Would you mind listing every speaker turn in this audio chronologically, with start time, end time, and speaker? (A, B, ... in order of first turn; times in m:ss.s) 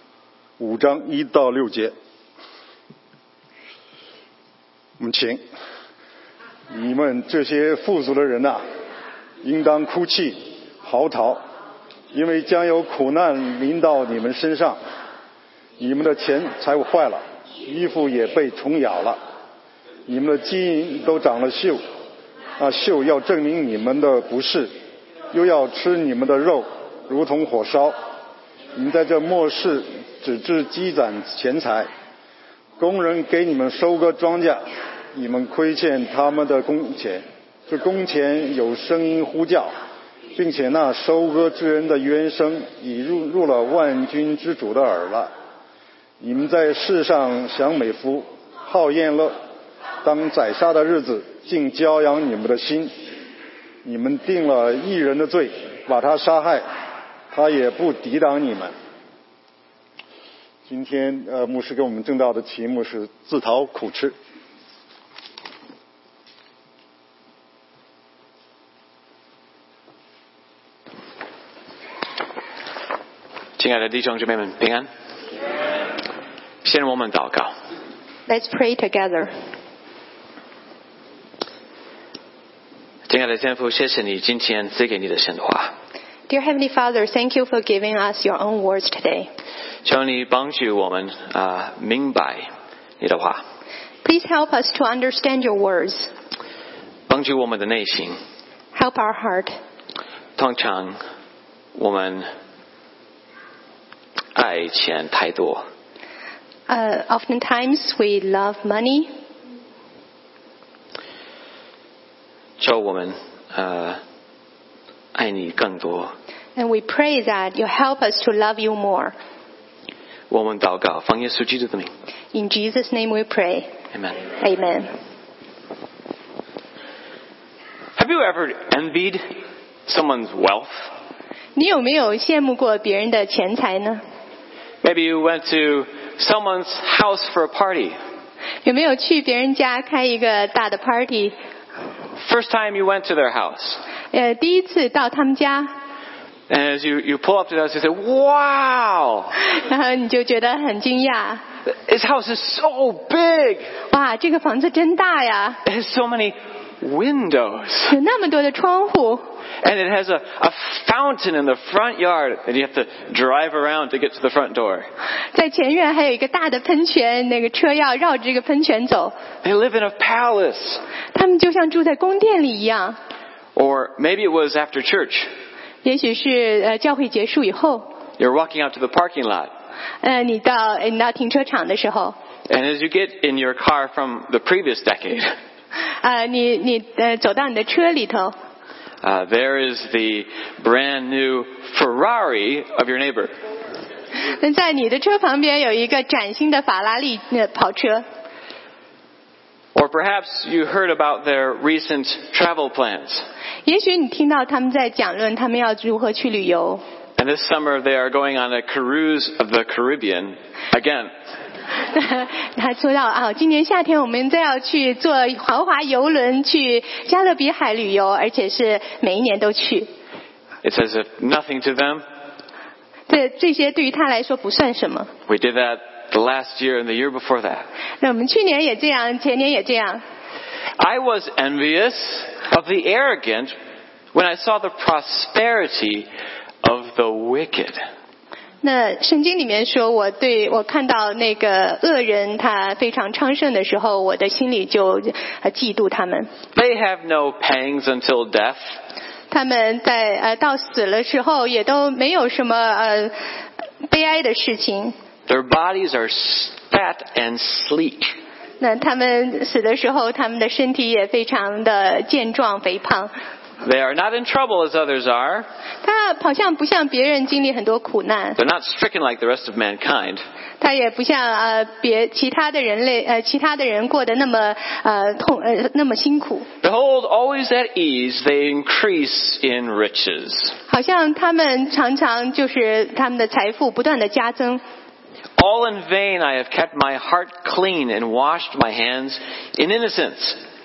0:00.6-0:01.9 A
0:05.0-0:05.4 A
0:06.7-0:08.6 A
0:09.4-0:11.4 A
0:12.1-0:14.8 A
0:15.8-0:19.2 A
0:20.1-0:21.8 A
0:22.6-0:24.7 A
0:25.3-0:28.0 A
0:28.8-0:31.9 A
0:32.8-0:34.6 A
0:35.1-0:39.7 A
0:40.4-0:45.3 A
0:46.2-0:49.4 A
0:50.0-0:53.0 A
0:53.8-0:56.6 A
0:57.3-0:58.7 A
1:00.7-1:04.2 A
1:13.6-1:14.9 B
1:16.6-1:17.5 B
1:18.3-1:19.3 C
1:23.1-1:25.7 B
1:26.3-1:29.3 C
1:29.8-1:32.5 B
1:33.0-1:33.4 B
1:34.0-1:36.1 C
1:37.1-1:38.2 B
1:38.7-1:39.6 C
1:40.4-1:41.0 B
1:41.8-1:42.3 B
1:44.4-1:45.6 B
1:46.7-1:49.1 C
1:52.6-1:54.0 B
1:55.2-1:56.1 B
1:56.6-1:59.2 C
2:00.3-2:01.9 B
2:02.3-2:03.7 C
2:03.9-2:04.2 B
2:04.3-2:04.9 C
2:08.0-2:09.3 B
2:09.9-2:10.9 B
2:11.6-2:14.0 C
2:14.8-2:18.0 B
2:18.6-2:21.4 C
2:22.2-2:23.8 B
2:24.1-2:25.7 C
2:26.5-2:29.4 B
2:29.4-2:31.4 C
2:31.7-2:33.7 B
2:33.9-2:35.6 C
2:35.6-2:38.0 B
2:37.9-2:39.2 C
2:39.6-2:44.9 B
2:45.3-2:49.2 C
2:49.4-2:50.8 B
2:51.1-2:53.0 C
2:53.6-2:55.3 B
2:55.8-2:57.9 C
2:58.2-2:59.5 B
3:00.0-3:02.2 C
3:02.5-3:05.4 B
3:06.0-3:08.4 C
3:09.0-3:13.4 B
3:14.4-3:18.0 C
3:19.8-3:23.2 B
3:23.7-3:26.8 C
3:27.2-3:31.1 B
3:31.9-3:39.9 C
3:40.6-3:42.0 B
3:43.1-3:45.1 C
3:45.3-3:47.7 B
3:48.0-3:50.0 C
3:50.8-3:53.5 B
3:54.1-3:56.1 B
3:56.6-3:57.8 B
3:58.6-4:06.3 C
4:06.5-4:08.6 B
4:09.3-4:13.2 C
4:13.9-4:15.0 C
4:15.3-4:18.1 B
4:18.6-4:23.1 C
4:23.6-4:25.5 B
4:25.8-4:28.4 C
4:28.4-4:30.2 B
4:30.6-4:36.5 C
4:36.6-4:40.6 B
4:40.7-4:44.6 C
4:45.4-4:50.4 B